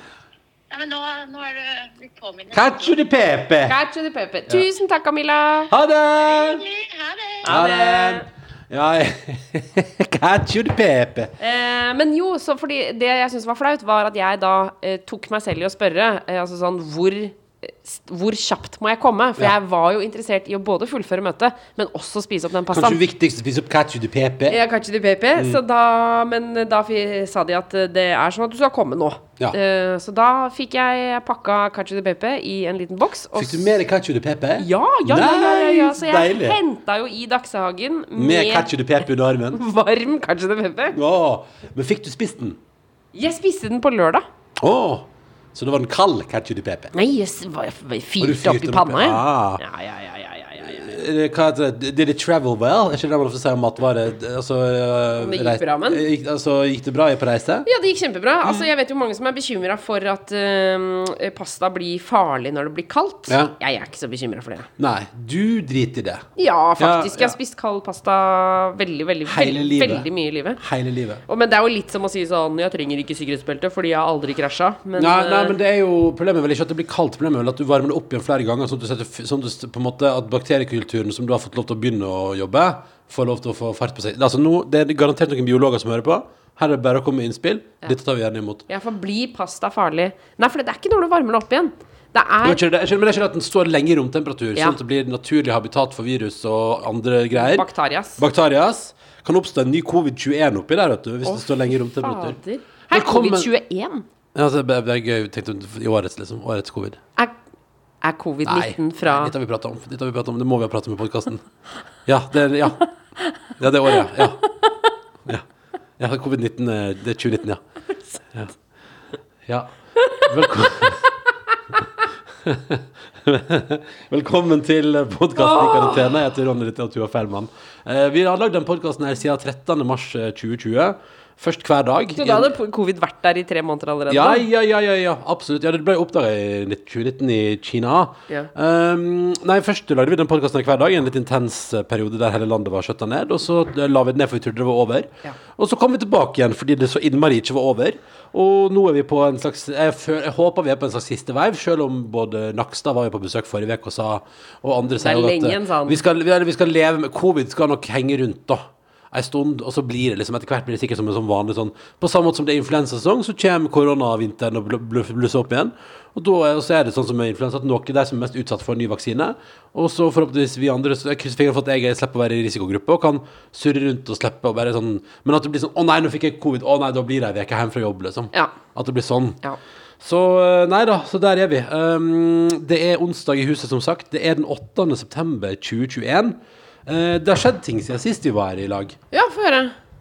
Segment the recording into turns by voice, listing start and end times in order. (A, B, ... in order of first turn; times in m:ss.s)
0:00.7-0:02.9 A
0:02.5-0:03.8 B
0:03.7-0:05.7 C
0:05.7-0:06.6 B
0:06.1-0:07.6 A
0:07.4-0:08.3 C
0:07.5-0:11.3 B
0:11.4-0:23.0 C
0:22.7-0:24.6 B
0:24.5-0:33.8 C
0:33.4-0:36.6 B
0:34.6-0:38.7 C
0:38.2-0:39.6 B
0:39.5-0:41.0 C
0:40.9-0:42.6 B
0:43.1-0:44.2 C
0:44.6-0:46.9 B
0:46.9-0:51.0 C
0:48.2-0:49.6 B
0:50.6-0:57.7 B
0:55.2-0:56.0 C
0:57.6-1:04.7 C
0:58.4-0:58.7 B
1:03.3-1:03.6 B
1:04.8-1:06.3 B
1:06.4-1:10.6 C
1:06.8-1:07.4 B
1:09.3-1:10.1 B
1:10.6-1:11.2 B
1:11.3-1:15.6 C
1:15.0-1:28.6 B
1:28.7-1:32.6 C
1:32.4-1:42.4 B
1:37.3-1:38.2 C
1:41.2-1:44.1 C
1:42.9-1:43.5 B
1:44.4-1:47.0 B
1:48.0-1:49.3 C
1:48.4-1:51.4 B
1:52.1-1:52.8 B
1:53.6-1:54.4 B
1:53.9-1:54.7 C
1:56.0-1:57.6 B
1:59.5-2:01.0 B
2:00.0-2:00.3 C
2:02.4-2:12.5 B
2:05.4-2:06.1 C
2:12.1-2:14.4 C
2:14.1-2:59.4 B
2:35.0-2:36.0 C
3:00.0-3:09.0 B
3:09.1-3:09.7 C